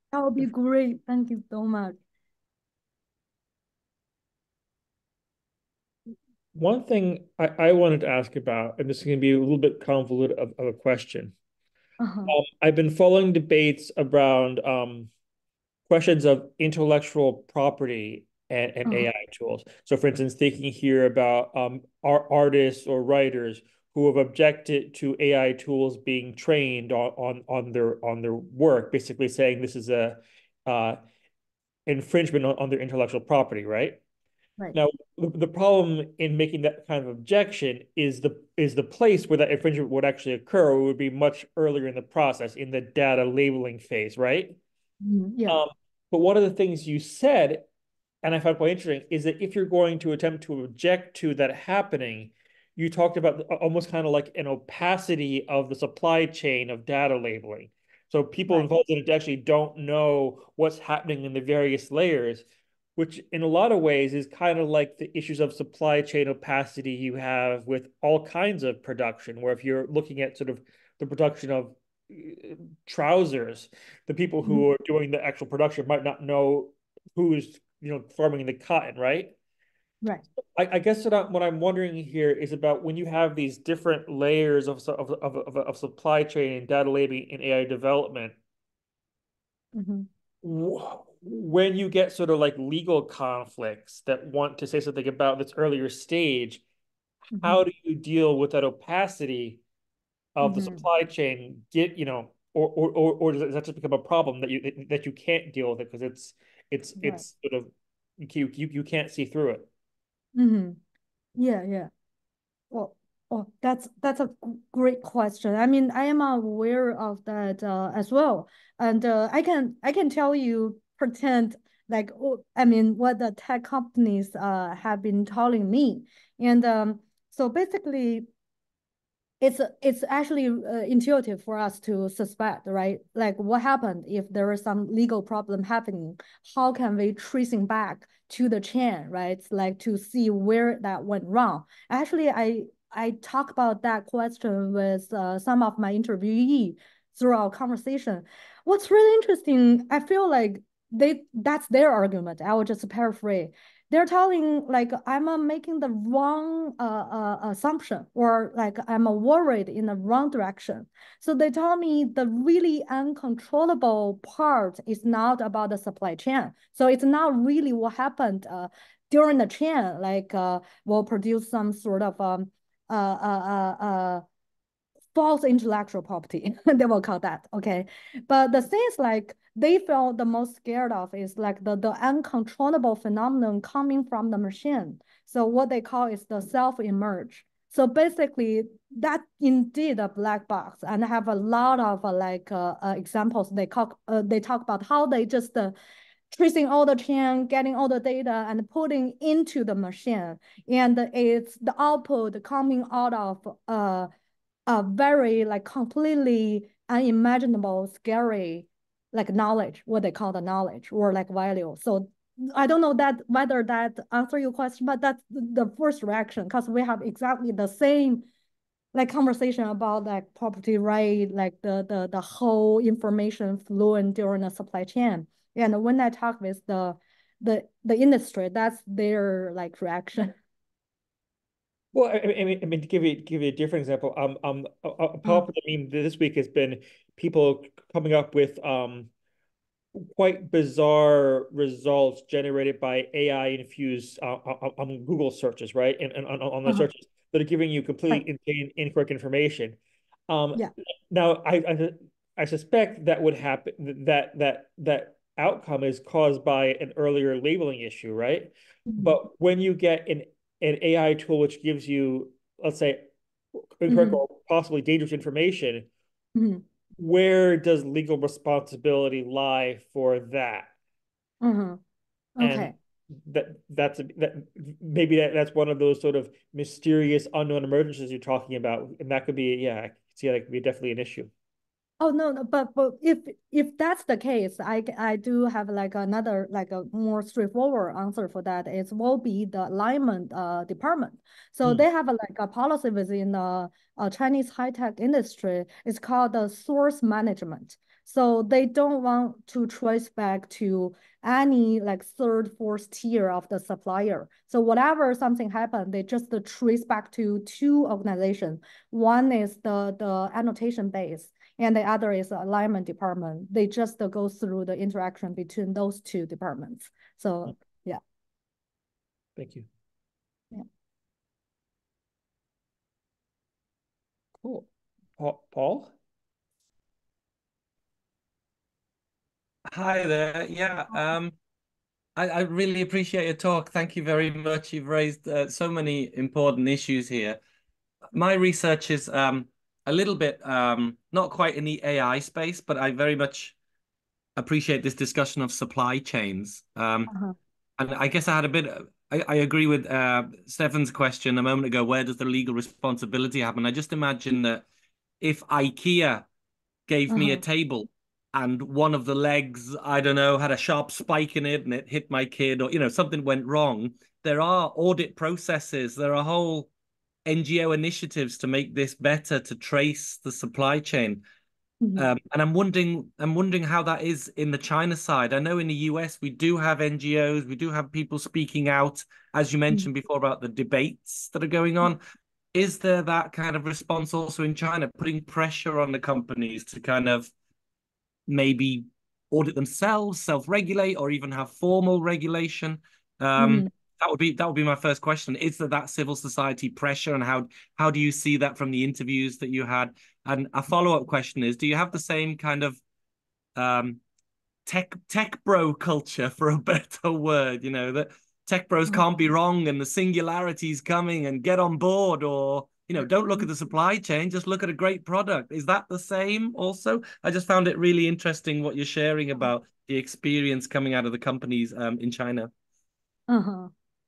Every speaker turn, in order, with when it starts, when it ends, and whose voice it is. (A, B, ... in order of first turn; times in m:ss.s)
0:00.1-0:02.0 A
0:06.5-0:11.3 B
0:12.0-0:12.3 A
0:12.2-0:15.1 B
0:15.9-0:31.0 B
0:31.8-0:34.0 B
0:34.7-0:44.6 B
0:45.0-0:45.6 A
0:45.5-0:47.6 B
0:48.2-1:02.4 B
1:03.0-1:19.3 B
1:20.4-1:28.3 B
1:29.7-1:30.1 A
1:30.4-1:36.6 B
1:37.3-1:37.6 A
1:37.4-1:39.6 B
1:40.4-1:49.7 B
1:40.4-1:40.8 A
1:47.0-1:47.2 A
1:50.3-1:50.8 A
1:51.4-1:51.9 A
1:52.7-2:08.3 A
2:09.4-2:54.2 A
2:55.1-3:15.7 A
3:16.3-3:24.1 A
3:24.7-3:38.2 A
3:38.9-3:50.3 A
3:51.9-3:59.1 B
3:59.9-4:09.8 B
4:10.3-4:23.1 B
4:18.9-4:19.2 A
4:23.8-4:25.9 B
4:23.9-4:24.2 A
4:26.3-4:26.6 A
4:27.0-4:30.7 B
4:31.4-4:31.8 A
4:32.4-4:32.7 A
4:32.4-4:41.3 B
4:42.0-5:18.0 A
5:19.4-5:19.7 B
5:24.4-5:25.9 B
5:29.7-5:31.3 C
5:32.2-5:37.4 C
5:38.1-5:43.5 C
5:44.4-5:47.1 C
5:47.1-5:47.3 A
5:47.8-5:54.6 C
5:55.2-5:56.2 C
5:56.9-6:06.7 C
5:57.1-5:57.4 A
6:07.2-6:11.2 C
6:11.8-6:12.1 A
6:12.0-6:22.0 C
6:22.5-6:27.3 C
6:28.3-6:42.8 C
6:33.4-6:33.7 A
6:43.6-6:44.0 C
6:44.6-7:02.5 C
7:03.3-7:03.7 A